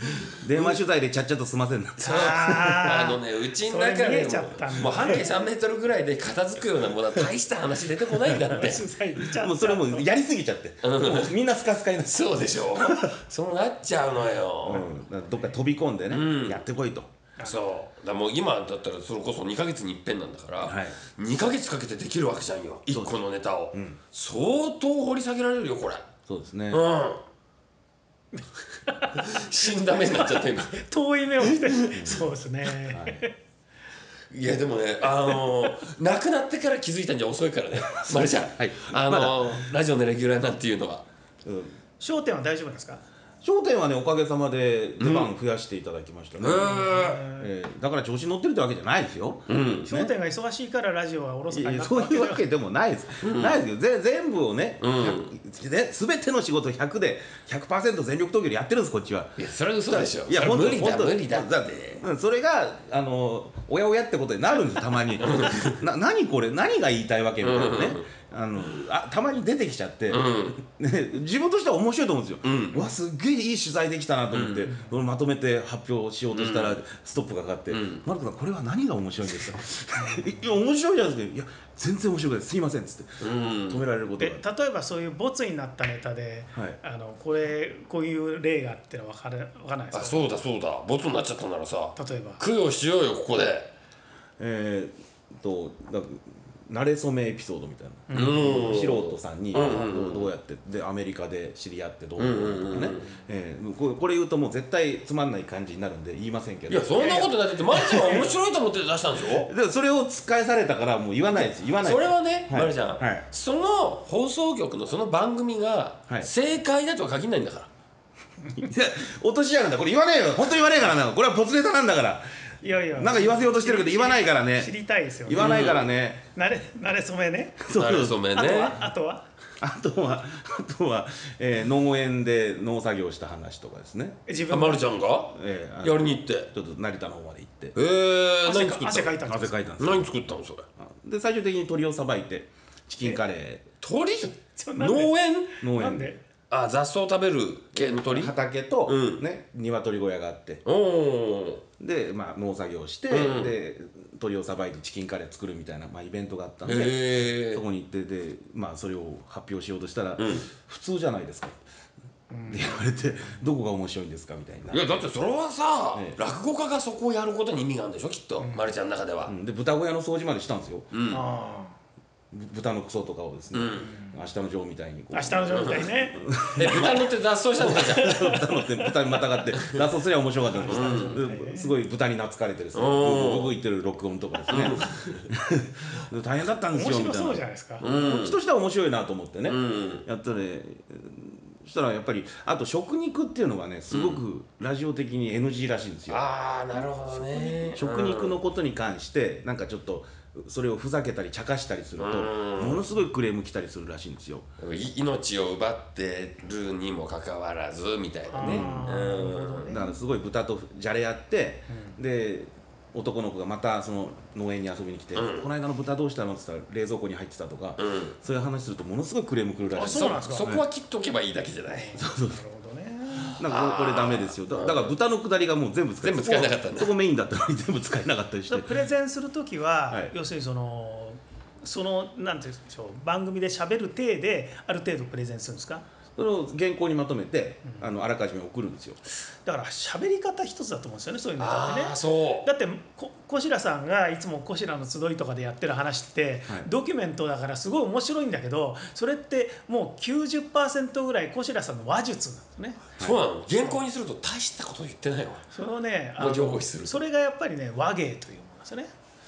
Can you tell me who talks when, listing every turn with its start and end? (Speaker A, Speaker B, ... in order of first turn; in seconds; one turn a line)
Speaker A: 0.2-0.8
Speaker B: 0.3-2.9
Speaker C: 2.0-5.3
Speaker A: 2.0-8.8
Speaker C: 8.3-10.1
Speaker B: 9.2-13.2
Speaker A: 10.8-11.3
Speaker A: 12.1-14.8
Speaker B: 14.6-17.1
Speaker C: 14.7-15.5
Speaker A: 16.1-16.6
Speaker C: 17.4-17.7
Speaker A: 17.4-26.1
Speaker B: 20.6-21.0
Speaker B: 22.9-23.2
Speaker B: 23.7-24.0
Speaker B: 26.3-26.8
Speaker A: 26.7-27.2
Speaker C: 28.4-29.5
Speaker A: 29.2-30.8
Speaker C: 30.1-33.3
Speaker A: 31.4-32.1
Speaker B: 31.9-32.2
Speaker B: 32.9-33.3
Speaker A: 34.3-41.0
Speaker B: 37.9-39.6
Speaker B: 41.4-41.7
Speaker C: 42.0-43.0
Speaker B: 43.4-50.1
Speaker A: 45.0-45.3
Speaker A: 46.4-47.2
Speaker C: 46.7-47.5
Speaker A: 49.5-50.0
Speaker C: 49.9-52.4
Speaker B: 51.5-84.4
Speaker A: 53.2-53.6
Speaker A: 54.8-55.3
Speaker A: 59.4-62.0
Speaker A: 65.2-65.8
Speaker A: 67.4-68.0
Speaker A: 70.1-70.6
Speaker A: 72.4-72.8
Speaker A: 74.3-74.7
Speaker C: 74.7-74.9
Speaker A: 76.3-76.8
Speaker A: 77.7-78.0
Speaker C: 80.0-80.2
Speaker A: 83.2-83.8
Speaker C: 84.2-90.3
Speaker B: 86.5-86.8
Speaker A: 89.9-93.7
Speaker C: 92.0-92.4
Speaker B: 94.4-107.3
Speaker C: 98.1-98.6
Speaker A: 98.1-100.3
Speaker A: 102.2-103.1
Speaker A: 106.7-109.5
Speaker C: 107.0-108.3
Speaker B: 107.9-108.2
Speaker B: 109.3-113.2
Speaker A: 111.4-117.7
Speaker B: 118.5-122.2
Speaker C: 122.6-125.8
Speaker B: 122.9-124.7
Speaker B: 125.2-126.2
Speaker A: 125.3-125.9
Speaker C: 126.3-127.7
Speaker B: 127.6-128.2
Speaker A: 127.7-128.8
Speaker C: 128.3-129.2
Speaker B: 129.6-134.2
Speaker C: 134.3-134.9
Speaker A: 134.5-136.5
Speaker B: 135.3-137.8
Speaker A: 137.7-139.2
Speaker C: 138.4-139.5
Speaker B: 139.2-140.2
Speaker A: 139.8-140.7
Speaker B: 140.8-143.7
Speaker A: 143.8-145.6
Speaker C: 144.5-146.2
Speaker B: 145.6-146.1
Speaker A: 146.5-148.3
Speaker B: 147.7-150.6
Speaker A: 148.8-149.2
Speaker A: 150.6-151.6
Speaker B: 151.8-161.6
Speaker A: 153.1-153.5
Speaker A: 156.7-157.6
Speaker A: 160.2-160.5
Speaker C: 162.3-162.8
Speaker B: 162.5-165.0
Speaker A: 164.7-169.3
Speaker B: 165.9-166.2
Speaker B: 169.3-170.9
Speaker A: 170.9-171.2
Speaker C: 171.1-171.8
Speaker B: 172.3-177.1
Speaker A: 173.5-173.9
Speaker C: 173.8-174.2
Speaker C: 175.1-176.2
Speaker A: 175.5-175.9
Speaker A: 176.6-178.1
Speaker B: 177.6-196.2
Speaker C: 177.8-178.6
Speaker A: 179.5-179.8
Speaker C: 180.5-181.7
Speaker A: 180.7-181.2
Speaker A: 182.7-183.5
Speaker A: 184.5-185.2
Speaker C: 186.7-187.8
Speaker A: 187.8-188.4
Speaker A: 189.5-190.1
Speaker A: 193.9-194.2
Speaker A: 196.1-198.4
Speaker C: 197.3-197.7
Speaker B: 197.7-204.5
Speaker A: 202.0-202.8
Speaker A: 204.6-209.8
Speaker C: 208.3-209.9
Speaker B: 208.4-208.9
Speaker B: 209.7-220.6
Speaker C: 211.7-212.0
Speaker A: 215.1-215.5
Speaker A: 217.8-218.1
Speaker C: 219.7-220.5
Speaker A: 219.8-222.0
Speaker C: 221.7-223.4
Speaker B: 221.9-222.4
Speaker B: 223.2-228.7
Speaker A: 223.4-224.9
Speaker A: 226.0-226.9
Speaker C: 228.5-235.8
Speaker B: 229.9-230.1
Speaker B: 236.1-239.0
Speaker C: 239.4-252.8
Speaker A: 241.4-242.5
Speaker A: 253.0-255.5
Speaker C: 255.5-258.9
Speaker A: 256.2-257.0